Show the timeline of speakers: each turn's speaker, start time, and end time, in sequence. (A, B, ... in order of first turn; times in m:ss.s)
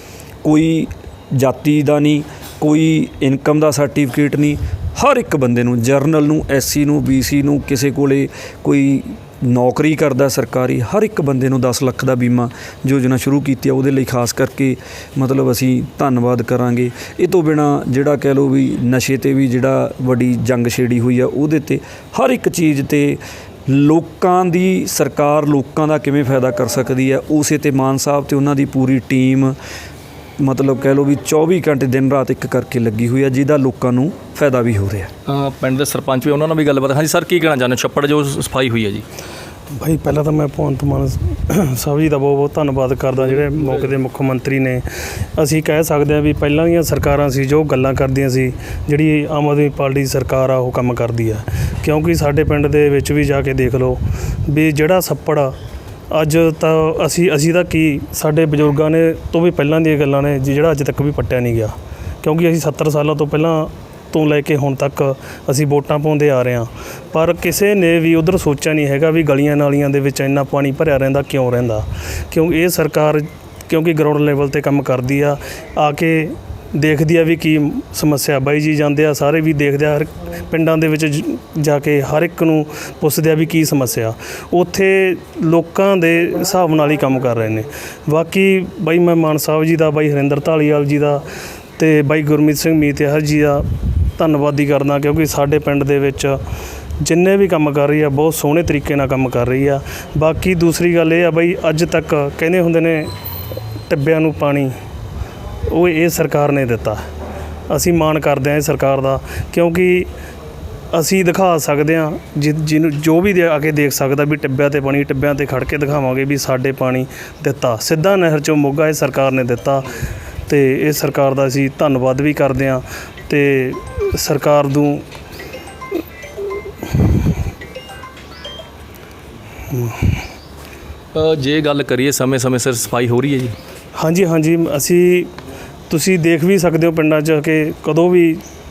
0:00.4-0:29.5 A
0:30.4-0:35.1 A
0:35.3-0:39.0 B
0:39.8-0:55.5 C
0:43.2-0:44.0 B
0:56.1-1:31.2 C
1:31.8-1:33.6 C
1:34.2-1:36.4 C
1:37.0-1:43.1 C
1:43.9-1:44.7 C
1:45.7-1:47.0 C
1:47.7-1:50.1 C
1:50.9-1:59.9 C
2:00.5-2:05.0 C
2:09.7-2:10.2 C
2:11.1-2:13.6 B
2:14.0-2:15.3 C
2:15.9-2:18.4 C